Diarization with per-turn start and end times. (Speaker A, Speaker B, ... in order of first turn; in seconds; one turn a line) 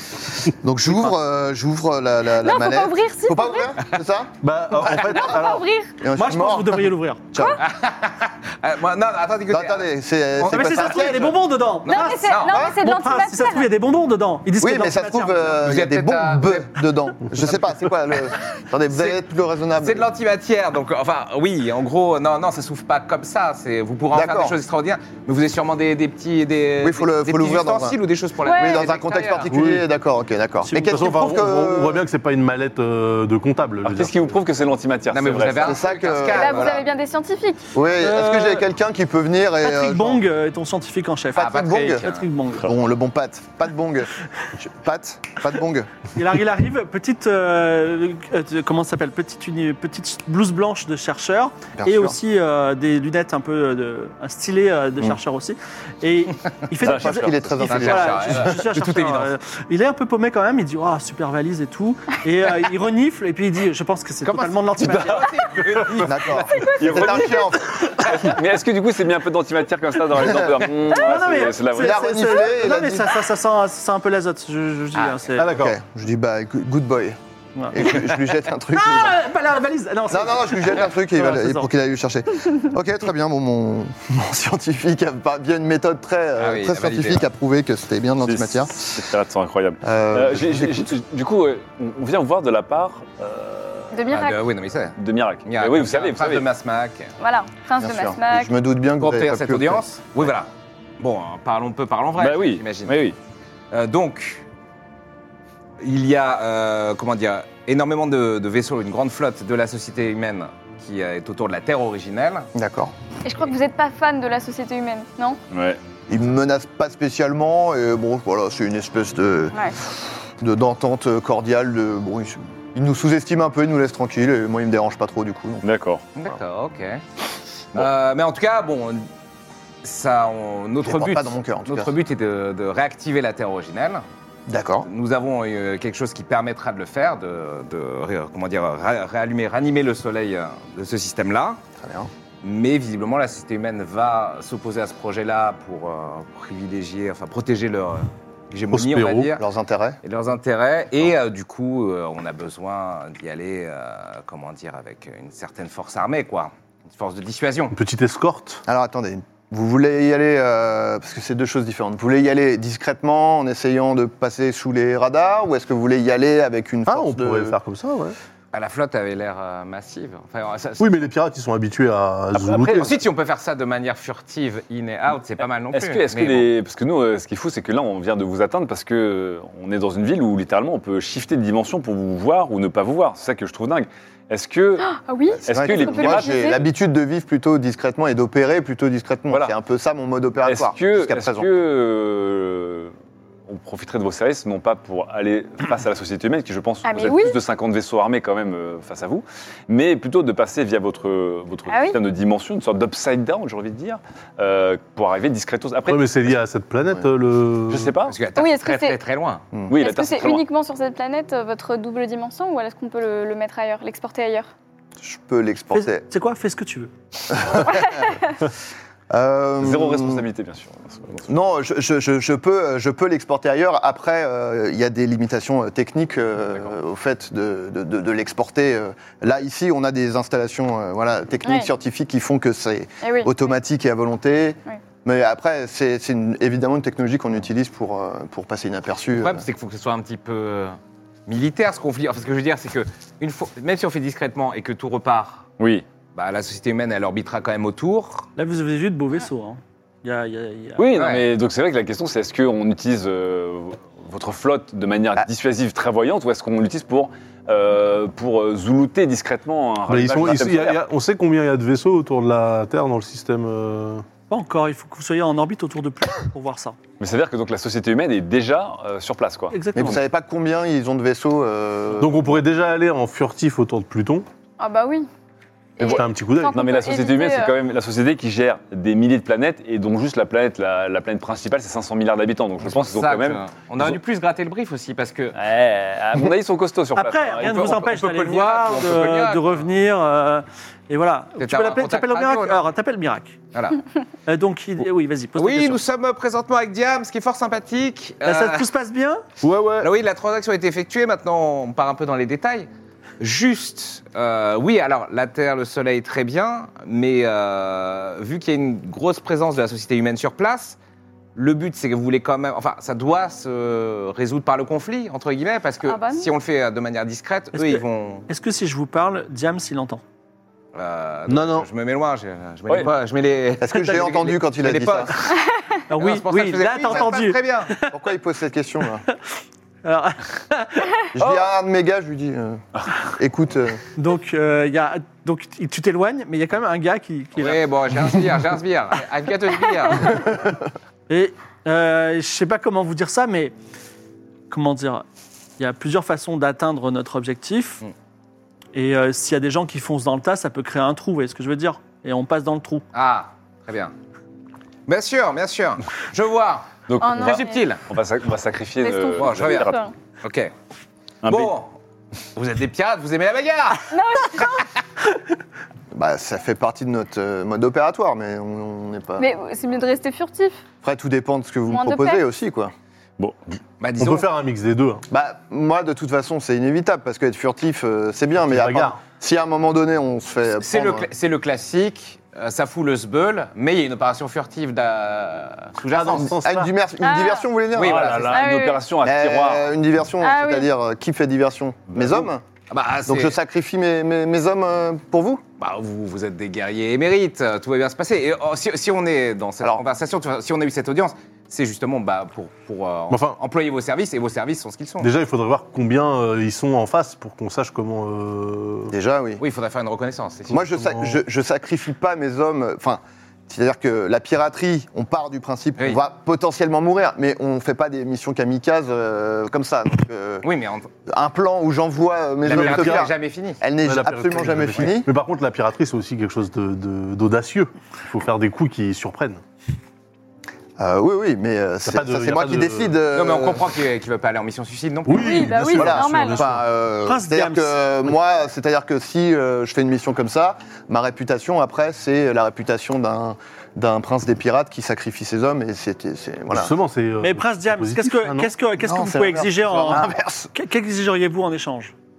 Speaker A: 0.5-4.3
Speaker B: 2.4-3.8
Speaker C: 4.4-5.6
Speaker A: 4.8-5.5
Speaker B: 5.0-6.0
Speaker A: 6.0-7.6
Speaker D: 6.1-7.3
Speaker B: 7.3-7.6
Speaker E: 7.6-11.3
Speaker A: 9.5-11.4
Speaker D: 10.4-15.6
Speaker E: 11.8-12.6
Speaker B: 11.9-13.7
Speaker A: 12.5-12.8
Speaker A: 14.6-20.1
Speaker E: 15.6-16.8
Speaker E: 17.3-17.7
Speaker E: 18.9-19.2
Speaker E: 19.8-29.5
Speaker A: 24.1-24.6
Speaker A: 26.8-32.0
Speaker B: 28.4-28.9
Speaker C: 29.5-29.9
Speaker C: 30.7-34.3
Speaker F: 33.8-35.8
Speaker E: 35.1-36.8
Speaker A: 35.6-36.8
Speaker B: 36.2-37.7
Speaker A: 37.7-40.2
Speaker D: 38.0-38.7
Speaker D: 39.6-42.7
Speaker E: 41.4-42.3
Speaker A: 41.4-42.0
Speaker A: 42.6-45.9
Speaker D: 46.1-65.2
Speaker A: 51.8-52.2
Speaker F: 56.8-57.5
Speaker A: 56.8-58.5
Speaker E: 57.6-59.3
Speaker E: 64.2-66.4
Speaker F: 64.8-65.2
Speaker A: 66.0-67.9
Speaker B: 66.5-67.4
Speaker F: 66.8-72.2
Speaker A: 70.2-70.6
Speaker D: 70.9-75.5
Speaker A: 71.7-73.1
Speaker E: 74.9-75.3
Speaker C: 75.4-75.8
Speaker A: 75.5-77.2
Speaker D: 77.5-77.9
Speaker A: 77.7-79.2
Speaker D: 78.7-81.7
Speaker A: 80.1-89.0
Speaker E: 86.4-87.2
Speaker F: 88.2-94.2
Speaker A: 89.8-90.9
Speaker B: 93.9-94.4
Speaker E: 94.1-97.1
Speaker F: 95.0-96.5
Speaker B: 97.2-98.5
Speaker A: 97.8-99.8
Speaker E: 99.0-103.0
Speaker F: 102.2-103.2
Speaker E: 103.7-104.4
Speaker E: 105.8-112.5
Speaker A: 112.5-112.9
Speaker B: 113.2-115.4
Speaker F: 115.5-115.8
Speaker A: 116.1-125.7
Speaker F: 125.6-126.0
Speaker E: 126.2-127.0
Speaker E: 127.7-129.1
Speaker E: 129.8-134.0
Speaker A: 130.8-131.9
Speaker A: 134.5-134.9
Speaker E: 134.8-141.6
Speaker A: 141.8-142.1
Speaker E: 142.4-149.4
Speaker C: 148.7-149.3
Speaker A: 149.4-150.0
Speaker E: 150.0-157.7
Speaker C: 157.7-158.6
Speaker A: 158.7-167.6
Speaker C: 166.9-168.2
Speaker E: 168.5-171.1
Speaker C: 170.8-172.9
Speaker F: 172.3-173.0
Speaker E: 172.7-176.5
Speaker F: 175.7-184.9
Speaker B: 184.8-186.6
Speaker A: 185.3-191.5
Speaker F: 185.4-186.6
Speaker F: 189.3-189.6
Speaker F: 190.4-192.9
Speaker F: 193.5-206.3
Speaker B: 196.8-197.3
Speaker B: 201.7-202.0
Speaker C: 205.9-207.9
Speaker F: 207.7-208.2
Speaker E: 208.1-209.4
Speaker B: 208.3-209.0
Speaker A: 209.5-209.8
Speaker F: 209.7-210.4
Speaker B: 209.7-214.5
Speaker A: 215.0-216.1
Speaker D: 215.7-216.9
Speaker A: 217.3-218.1
Speaker B: 217.8-218.3
Speaker A: 219.1-220.2
Speaker F: 219.6-221.3
Speaker A: 221.3-239.4
Speaker B: 231.4-231.7
Speaker B: 233.0-233.3
Speaker E: 239.1-245.5
Speaker F: 245.6-245.8
Speaker E: 246.1-248.3
Speaker D: 248.4-250.8
Speaker F: 250.8-260.8
Speaker E: 250.9-251.3
Speaker C: 259.9-264.1
Speaker D: 264.3-266.8
Speaker F: 267.0-269.9
Speaker D: 269.5-270.0
Speaker A: 269.7-272.3
Speaker C: 272.0-274.2
Speaker B: 274.6-275.1
Speaker B: 275.8-277.5
Speaker C: 275.8-276.6
Speaker F: 275.8-284.0
Speaker E: 282.6-285.4
Speaker F: 285.3-287.8
Speaker D: 286.9-293.4
Speaker E: 287.4-289.6
Speaker E: 291.4-292.6
Speaker E: 293.5-293.8
Speaker D: 294.3-295.8
Speaker E: 295.4-298.7
Speaker D: 298.2-299.2
Speaker C: 299.4-299.9
Speaker E: 299.8-302.7
Speaker E: 303.2-310.8
Speaker E: 311.4-318.3
Speaker B: 315.8-316.3
Speaker D: 317.5-320.0
Speaker E: 320.7-325.4
Speaker C: 321.3-321.7
Speaker A: 323.6-325.1
Speaker B: 325.3-325.6
Speaker D: 325.9-327.9
Speaker E: 326.0-327.8
Speaker A: 327.9-329.0
Speaker D: 329.8-331.0
Speaker A: 331.1-332.6
Speaker F: 331.2-331.5
Speaker A: 333.1-333.8
Speaker D: 333.9-337.6
Speaker E: 337.4-340.2
Speaker A: 340.2-340.5
Speaker D: 341.1-343.5
Speaker D: 344.5-345.0
Speaker D: 345.6-347.8
Speaker D: 348.7-352.8
Speaker E: 352.9-353.9
Speaker E: 354.9-357.8
Speaker F: 356.9-359.8
Speaker B: 357.0-357.6
Speaker B: 358.8-359.9
Speaker E: 359.2-360.5
Speaker F: 361.2-361.5
Speaker E: 361.2-361.7
Speaker E: 362.4-364.6
Speaker B: 363.9-364.6
Speaker A: 365.9-369.3
Speaker B: 369.2-370.6
Speaker A: 370.8-372.7
Speaker B: 371.7-372.2
Speaker F: 373.2-373.6
Speaker E: 373.8-374.3
Speaker C: 374.0-375.0
Speaker A: 375.1-381.1
Speaker C: 378.4-379.0
Speaker E: 380.6-386.3
Speaker C: 385.9-386.7
Speaker A: 386.1-388.1
Speaker B: 387.0-387.4
Speaker E: 387.7-388.4
Speaker F: 387.8-389.7
Speaker B: 388.3-388.9
Speaker A: 389.0-392.4
Speaker B: 390.2-390.7
Speaker F: 391.9-392.3
Speaker E: 392.7-393.4
Speaker A: 393.1-395.4
Speaker E: 395.6-405.1
Speaker C: 403.1-403.4
Speaker C: 405.0-408.9
Speaker A: 408.9-409.4
Speaker E: 409.4-410.6
Speaker A: 410.5-420.5
Speaker C: 410.6-411.2
Speaker E: 420.4-420.9
Speaker A: 421.1-425.1
Speaker E: 422.4-423.6
Speaker C: 422.4-423.1
Speaker C: 423.8-429.4
Speaker A: 430.8-433.7
Speaker C: 431.8-433.0
Speaker E: 433.1-435.7
Speaker C: 435.1-436.6
Speaker B: 435.1-436.5
Speaker A: 435.7-446.7
Speaker D: 437.0-437.8
Speaker C: 446.5-448.5
Speaker D: 447.2-451.9
Speaker A: 448.8-450.5